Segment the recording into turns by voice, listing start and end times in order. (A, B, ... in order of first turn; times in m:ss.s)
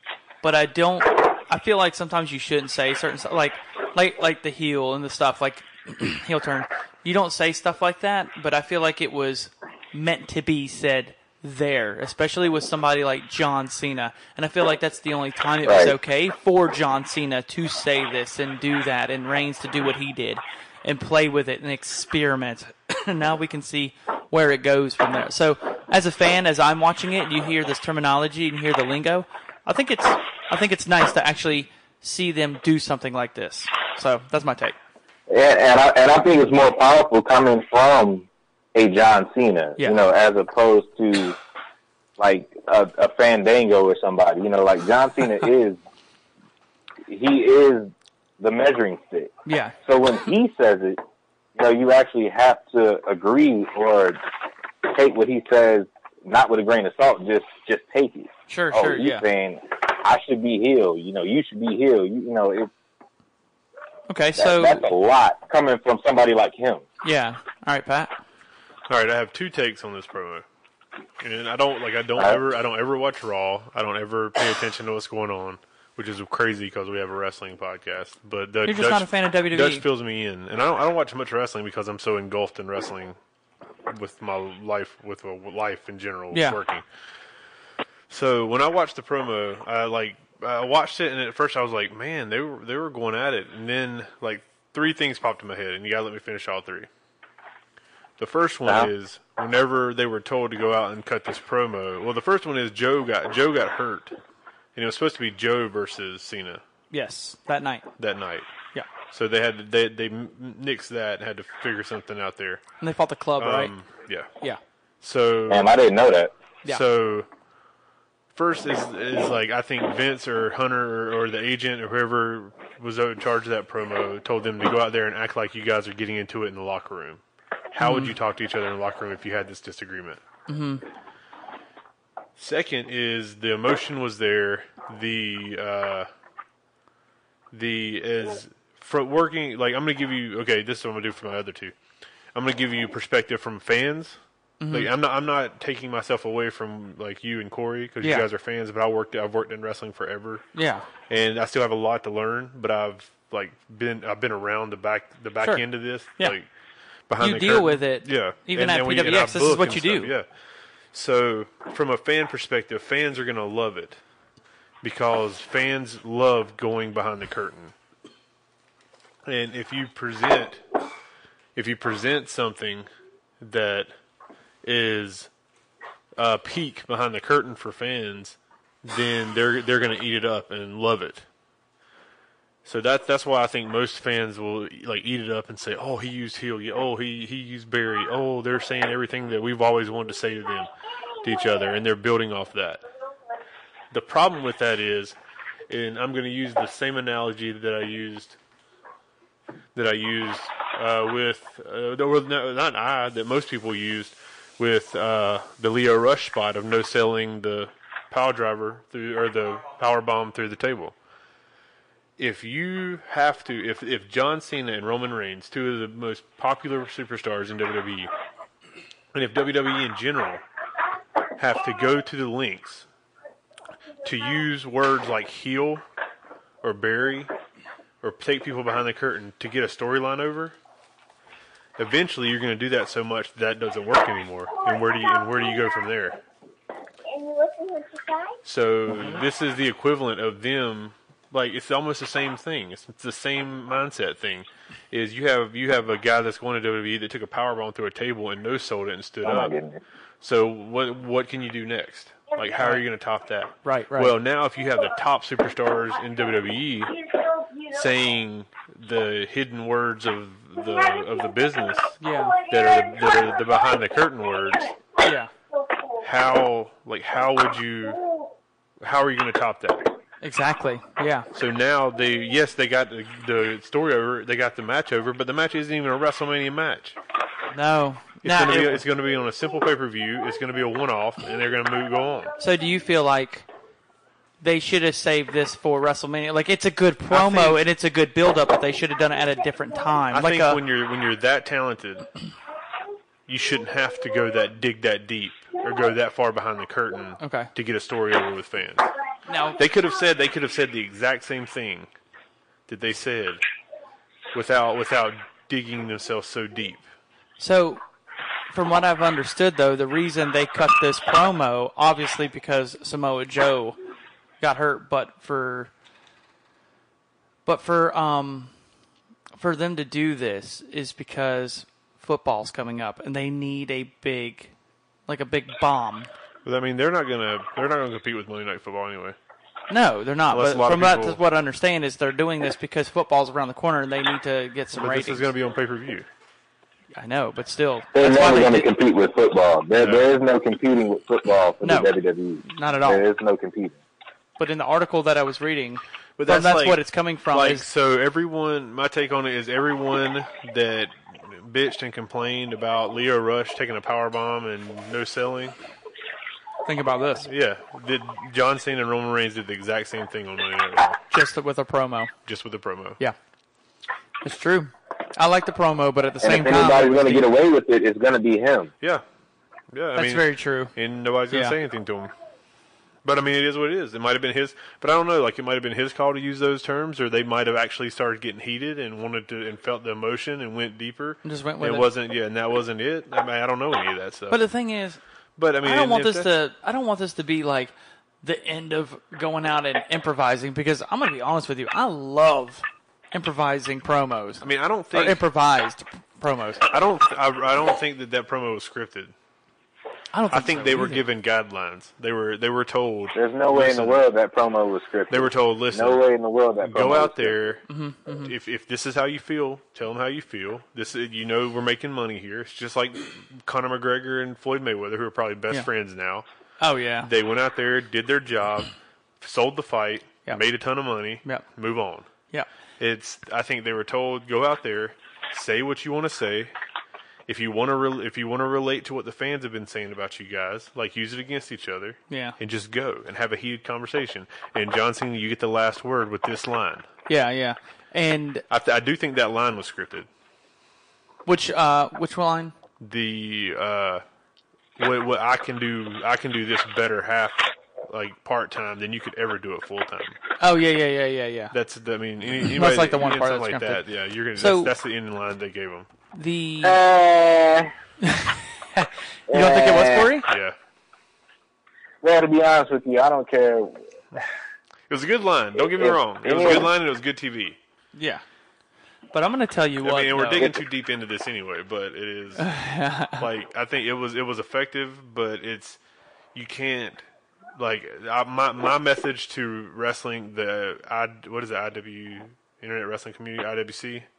0:00.4-0:34.8 A
0:15.6-0:16.0 B
0:35.3-0:41.4 B
0:42.2-0:45.8 B
0:47.0-0:49.3 B
0:49.4-0:49.7 A
0:49.8-0:51.0 B
0:51.5-0:54.2 B
0:54.8-1:02.7 B
0:58.5-0:59.2 A
1:04.1-1:04.8 A
1:04.4-1:06.8 B
1:07.0-1:08.1 A
1:08.9-1:10.4 C
1:11.2-1:23.2 C
1:18.6-1:19.8 A
1:23.9-1:26.8 C
1:26.3-1:26.6 A
1:28.1-1:36.9 C
1:38.2-1:44.1 C
1:44.8-1:46.6 C
1:46.9-1:47.8 A
1:48.0-1:48.5 C
1:49.1-1:52.6 C
1:52.8-1:53.7 A
1:53.4-1:54.3 C
1:55.0-1:55.7 C
1:55.5-1:56.3 B
1:56.6-1:57.3 C
1:58.3-2:07.2 C
2:07.7-2:10.2 C
2:07.8-2:08.1 A
2:10.5-2:10.8 A
2:12.4-2:16.1 C
2:17.5-2:21.7 C
2:22.3-2:24.2 C
2:24.6-2:24.9 A
2:24.7-2:30.4 C
2:28.0-2:28.3 A
2:30.5-2:30.8 A
2:31.1-2:36.4 C
2:37.1-2:40.3 C
2:37.2-2:40.1 A
2:40.9-2:44.0 C
2:44.8-2:47.7 C
2:49.2-2:50.6 C
2:51.6-2:52.9 C
2:53.4-2:53.9 C
2:54.6-2:55.3 C
2:56.2-3:01.2 C
3:02.6-3:10.7 C
3:11.2-3:12.8 C
3:13.9-3:15.2 C
3:15.7-3:18.4 C
3:19.7-3:30.9 C
3:32.2-3:38.1 C
3:39.1-3:40.4 C
3:41.4-3:42.9 C
3:44.0-3:45.8 C
3:46.6-3:47.3 C
3:48.0-3:50.6 C
3:51.8-3:56.2 C
3:57.1-3:58.4 D
3:58.4-4:09.5 C
4:09.2-4:09.8 B
4:10.2-4:16.9 C
4:12.6-4:12.8 A
4:13.6-4:14.1 A
4:17.2-4:17.7 D
4:17.7-4:22.0 C
4:22.0-4:22.4 A
4:22.5-4:24.8 C
4:22.5-4:23.3 D
4:25.0-4:25.3 A
4:26.0-4:28.0 C
4:28.8-4:29.9 C
4:30.2-4:31.3 A
4:31.3-4:37.0 C
4:37.5-4:38.8 A
4:38.2-4:42.3 C
4:42.4-4:43.5 A
4:44.4-4:50.6 A
4:47.1-4:47.6 C
4:50.1-4:52.1 C
4:53.3-4:58.9 C
4:57.2-4:57.5 A
4:59.3-4:59.6 A
4:59.6-5:01.9 C
5:02.7-5:03.4 C
5:04.3-5:06.8 C
5:07.4-5:07.8 A
5:08.5-5:13.8 A
5:14.4-5:15.7 A
5:17.4-5:18.5 A
5:19.4-5:24.5 A
5:25.1-5:26.1 A
5:26.4-5:29.2 C
5:29.7-5:35.3 A
5:30.3-5:31.2 C
5:34.7-5:36.1 C
5:36.9-5:38.7 A
5:37.9-5:43.8 B
5:39.7-5:40.1 C
5:41.6-5:41.9 A
5:42.4-5:43.1 A
5:44.4-5:47.6 A
5:46.2-5:55.6 C
5:56.6-5:57.3 A
5:57.2-6:01.0 C
6:01.1-6:02.1 A
6:02.2-6:03.0 C
6:04.2-6:07.3 A
6:06.2-6:08.7 B
6:09.7-6:12.1 C
6:10.0-6:10.7 A
6:11.3-6:11.6 A
6:13.0-6:24.4 C
6:21.2-6:21.9 A
6:24.3-6:25.0 A
6:25.4-6:26.3 C
6:25.6-6:36.6 A
6:34.4-6:35.2 C
6:36.7-6:39.1 C
6:40.1-6:41.0 A
6:40.3-6:44.0 C
6:43.1-6:47.4 B
6:45.1-6:46.0 C
6:46.6-6:47.6 C
6:47.7-6:48.3 A
6:48.2-6:56.2 C
6:56.6-6:57.1 A
6:57.0-7:02.1 C
7:02.8-7:06.5 C
7:07.3-7:16.9 C
7:12.1-7:12.4 A
7:17.1-7:18.4 A
7:18.5-7:20.1 C
7:21.2-7:22.5 A
7:22.8-7:24.0 C
7:24.8-7:30.2 C
7:30.4-7:31.5 A
7:31.5-7:35.9 C
7:32.4-7:33.8 A
7:34.4-7:34.7 A
7:36.1-7:36.8 A
7:36.6-7:37.7 B
7:38.0-7:40.3 A
7:39.3-7:40.2 B
7:40.3-7:40.6 C
7:42.0-7:43.8 B
7:44.9-7:47.6 C
7:45.7-7:46.7 B
7:47.9-7:48.2 A
7:49.1-7:50.5 A
7:49.8-7:52.5 C
7:52.4-7:53.2 A
7:53.1-7:55.8 C
7:56.3-7:57.0 C
7:57.6-8:04.1 C